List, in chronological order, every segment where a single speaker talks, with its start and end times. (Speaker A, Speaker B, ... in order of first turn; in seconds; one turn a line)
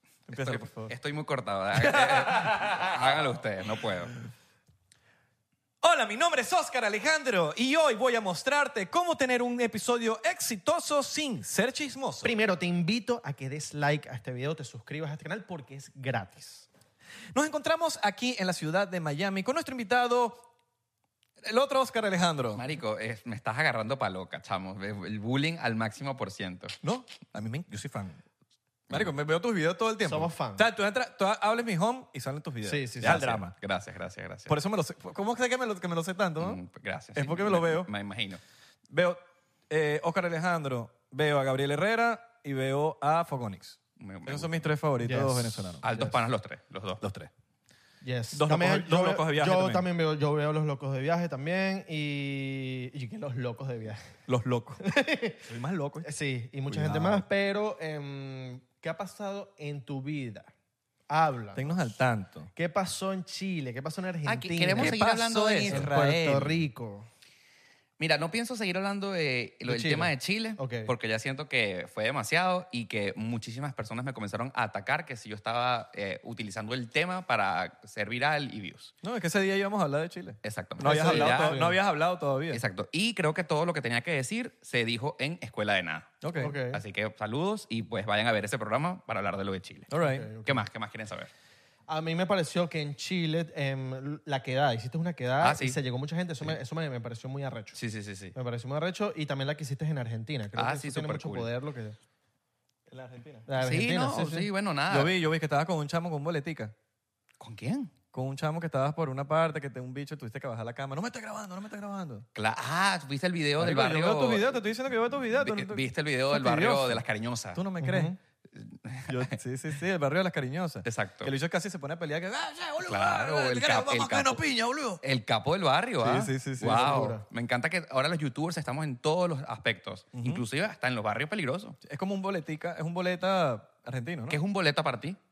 Speaker A: 0.3-0.9
Speaker B: 0.3-4.1
Speaker A: 1.7-3.1
Speaker A: 5.8-12.3
Speaker C: 12.2-16.7
Speaker A: 17.3-20.5
Speaker A: 21.4-22.6
Speaker B: 22.6-26.8
Speaker A: 26.8-28.2
Speaker A: 28.9-33.5
Speaker C: 30.1-30.7
Speaker C: 32.6-33.3
Speaker B: 33.0-34.5
Speaker A: 34.5-36.6
Speaker B: 36.4-38.4
Speaker A: 37.1-37.9
Speaker A: 38.9-45.8
Speaker B: 44.0-44.7
Speaker C: 45.0-46.1
Speaker B: 45.8-47.0
Speaker A: 47.0-47.3
Speaker C: 48.0-54.0
Speaker A: 48.3-49.9
Speaker A: 54.3-54.8
Speaker C: 54.8-55.5
Speaker A: 55.5-56.1
Speaker C: 56.0-60.5
Speaker A: 56.7-57.2
Speaker C: 61.1-62.0
Speaker A: 61.5-62.5
Speaker C: 62.5-65.0
Speaker B: 64.3-65.9
Speaker A: 64.8-66.6
Speaker C: 65.7-67.1
Speaker B: 68.0-78.9
Speaker C: 69.7-70.9
Speaker A: 79.0-82.6
Speaker B: 80.4-81.6
Speaker C: 80.8-81.8
Speaker B: 82.5-89.9
Speaker A: 86.2-86.5
Speaker C: 86.4-86.8
Speaker A: 89.9-90.3
Speaker C: 90.0-90.6
Speaker B: 90.5-91.3
Speaker C: 91.9-97.8
Speaker B: 95.4-95.8
Speaker B: 97.8-98.3
Speaker C: 98.3-102.0
Speaker B: 100.6-101.5
Speaker A: 102.9-103.5
Speaker C: 103.5-104.5
Speaker B: 103.6-105.1
Speaker A: 104.9-106.7
Speaker B: 107.4-107.9
Speaker A: 108.1-112.3
Speaker B: 112.3-114.5
Speaker A: 113.6-117.0
Speaker B: 115.4-117.6
Speaker A: 117.5-118.2
Speaker C: 117.8-118.2
Speaker B: 118.6-119.3
Speaker A: 119.1-125.0
Speaker B: 120.8-121.3
Speaker B: 122.8-124.4
Speaker B: 125.0-131.8
Speaker A: 126.0-127.0
Speaker C: 126.6-127.2
Speaker A: 130.2-130.4
Speaker A: 131.8-134.4
Speaker B: 134.3-135.2